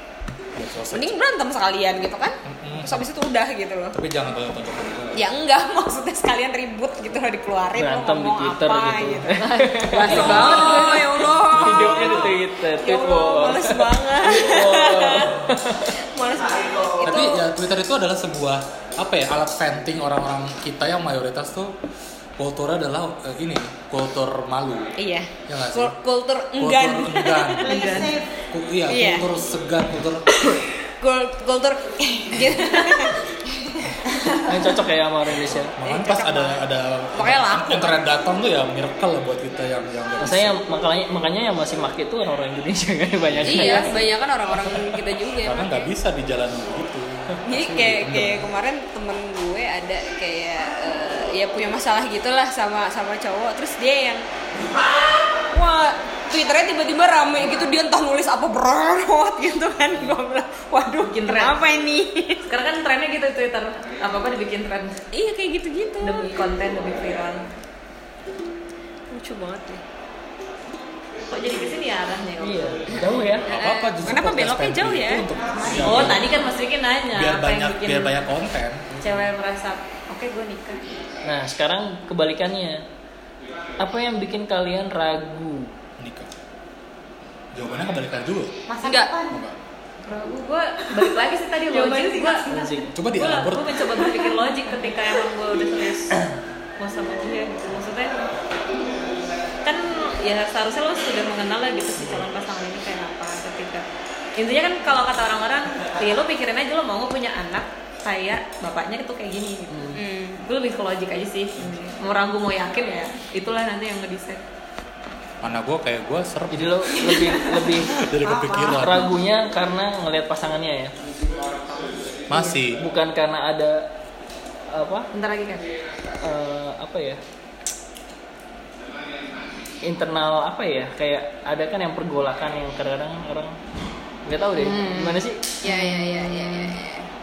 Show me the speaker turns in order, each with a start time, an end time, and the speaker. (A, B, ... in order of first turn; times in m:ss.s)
0:00.6-0:01.2 A
0:00.9-0:04.0 B
0:02.5-0:03.1 A
0:03.9-0:05.2 A
0:05.2-0:09.3 B
0:07.8-0:11.0 C
0:09.4-0:11.2 D
0:10.0-0:17.4 B
0:10.1-0:10.8 A
0:11.4-0:12.4 A
0:11.5-0:15.9 C
0:17.0-0:21.8 A
0:22.4-0:24.9 A
0:25.0-0:28.1 B
0:25.5-0:26.0 A
0:26.6-0:27.8 A
0:27.6-0:28.3 E
0:28.5-0:30.3 A
0:28.9-0:29.3 B
0:30.5-0:34.0 B
0:34.5-0:35.7 C
0:35.4-0:40.6 A
0:35.8-0:36.6 B
0:37.2-0:38.0 B
0:40.2-0:44.0 C
0:43.3-0:43.8 A
0:43.4-0:45.9 B
0:45.4-0:48.5 A
0:47.4-0:54.2 B
0:55.5-1:02.4 B
1:01.0-1:01.6 D
1:02.5-1:05.0 D
1:05.1-1:06.4 B
1:06.0-1:07.4 D
1:09.1-1:09.8 B
1:11.3-1:13.4 D
1:12.4-1:13.5 C
1:13.5-1:16.3 A
1:13.5-1:15.3 B
1:15.5-1:16.2 E
1:15.8-1:18.2 D
1:17.1-1:18.9 A
1:18.9-1:19.2 C
1:19.0-1:20.8 D
1:21.2-1:22.8 C
1:23.8-1:25.7 C
1:26.0-1:26.3 A
1:27.5-1:28.6 A
1:28.7-1:29.4 E
1:28.8-1:29.1 B
1:29.3-1:29.6 A
1:30.0-1:32.5 D
1:31.9-1:32.8 E
1:32.5-1:32.9 C
1:32.9-1:33.7 A
1:33.0-1:36.2 D
1:36.8-1:38.3 D
1:39.6-1:43.8 D
1:44.4-1:49.7 D
1:49.7-1:50.0 C
1:49.9-1:50.4 B
1:50.4-1:54.4 D
1:55.4-1:57.0 A
1:56.5-1:57.9 C
1:58.0-1:59.1 A
1:58.2-1:59.0 E
1:58.5-2:01.0 C
2:02.3-2:02.8 A
2:02.8-2:03.9 C
2:04.7-2:05.1 C
2:05.1-2:05.6 D
2:06.2-2:07.2 C
2:09.8-2:13.6 C
2:14.3-2:15.4 C
2:14.6-2:16.7 D
2:15.6-2:17.1 B